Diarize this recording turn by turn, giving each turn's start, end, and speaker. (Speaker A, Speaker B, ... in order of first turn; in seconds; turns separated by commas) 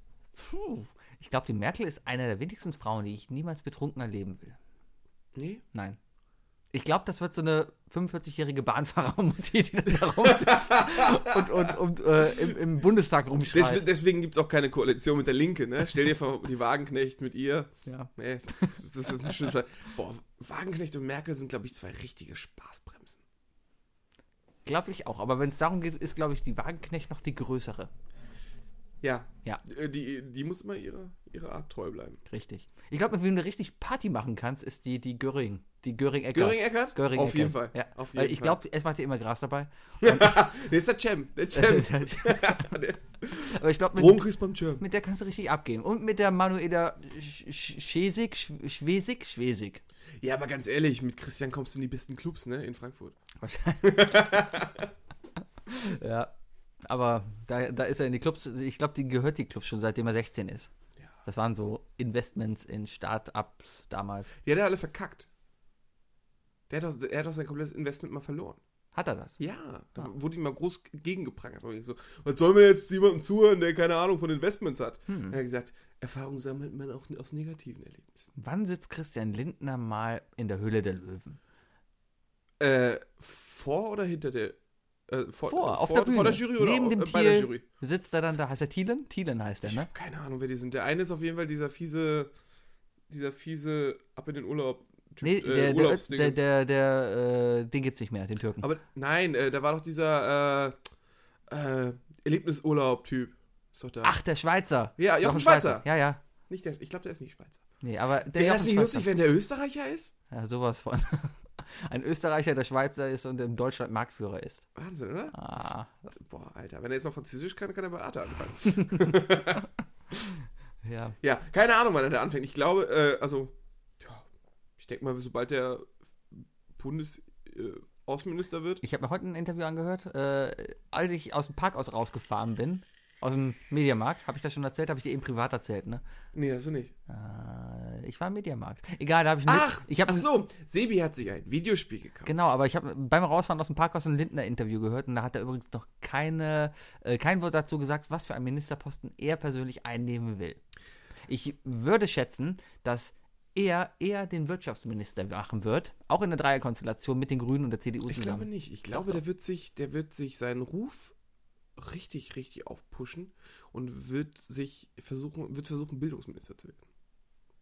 Speaker A: 0.4-4.6, Speaker B: 5.3-5.6, Speaker A: 5.7-6.0, Speaker A: 6.7-13.9, Speaker B: 10.2-11.8, Speaker B: 13.5-23.2, Speaker A: 17.9-19.5, Speaker A: 24.6-27.9, Speaker B: 29.0-32.2, Speaker A: 32.3-40.4, Speaker B: 36.3-38.6, Speaker B: 40.0-44.8, Speaker A: 41.5-42.7, Speaker A: 43.3-44.2, Speaker A: 44.8-49.8, Speaker B: 50.2-53.1, Speaker A: 53.4-54.6, Speaker B: 53.8-54.9, Speaker A: 55.7-56.3, Speaker A: 56.8-60.7, Speaker A: 61.2-64.3, Speaker B: 64.4-65.3, Speaker B: 66.7-68.6, Speaker A: 68.9-69.4, Speaker B: 69.4-78.3, Speaker A: 75.1-75.4, Speaker A: 78.3-81.4, Speaker B: 82.6-87.6, Speaker A: 85.5-89.9, Speaker B: 89.6-92.3, Speaker B: 93.1-96.4, Speaker A: 95.2-98.7, Speaker B: 98.6-100.8, Speaker B: 101.5-104.2, Speaker A: 104.0-106.2, Speaker B: 105.0-105.8, Speaker B: 106.5-107.6, Speaker A: 107.8-109.1, Speaker B: 108.3-110.1, Speaker A: 110.3-114.7, Speaker B: 114.8-119.7, Speaker A: 115.3-116.2, Speaker A: 118.8-119.0, Speaker A: 120.8-121.2, Speaker B: 121.2-124.2, Speaker B: 124.8-128.8, Speaker A: 128.8-136.0, Speaker B: 136.3-136.9, Speaker A: 137.1-140.2, Speaker B: 139.5-142.3, Speaker A: 142.2-150.6, Speaker A: 151.3-159.2, Speaker B: 158.1-161.1, Speaker B: 161.8-166.8